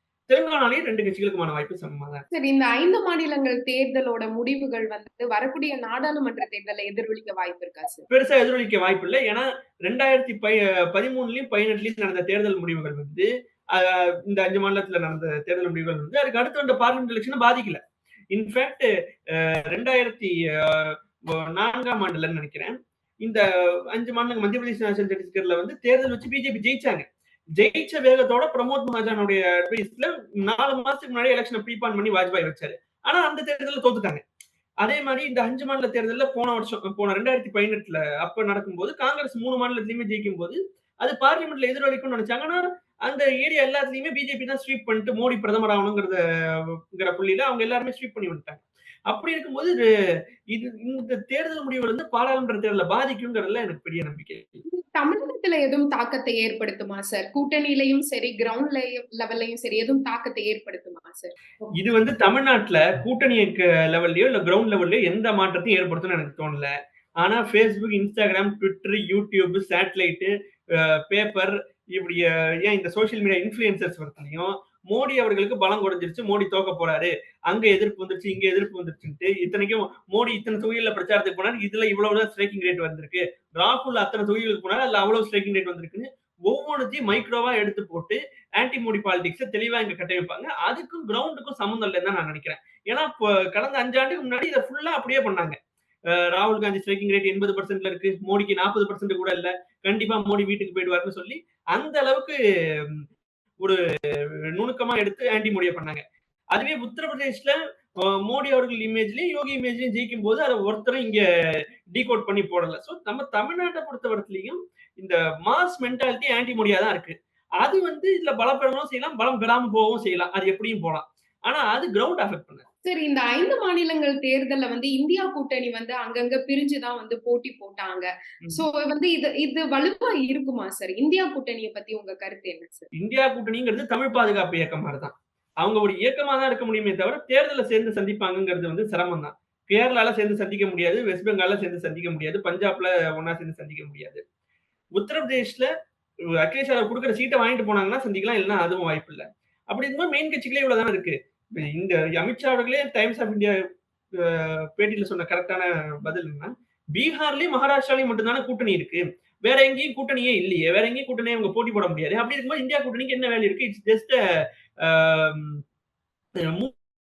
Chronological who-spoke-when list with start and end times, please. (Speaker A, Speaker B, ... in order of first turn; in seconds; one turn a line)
Speaker A: 0.3-2.2
Speaker B: 2.3-8.1
Speaker A: 8.1-17.8
Speaker A: 18.3-27.0
Speaker A: 27.6-34.2
Speaker A: 34.8-49.9
Speaker A: 50.5-54.6
Speaker B: 54.7-61.3
Speaker A: 61.8-95.6
Speaker A: 96.1-103.0
Speaker A: 103.6-106.0
Speaker A: 106.5-122.7
Speaker B: 122.8-132.9
Speaker A: 133.0-144.2
Speaker A: 145.0-145.7
Speaker A: 146.4-153.6
Speaker A: 154.2-164.2
Speaker A: 164.8-165.6
Speaker A: 166.4-166.7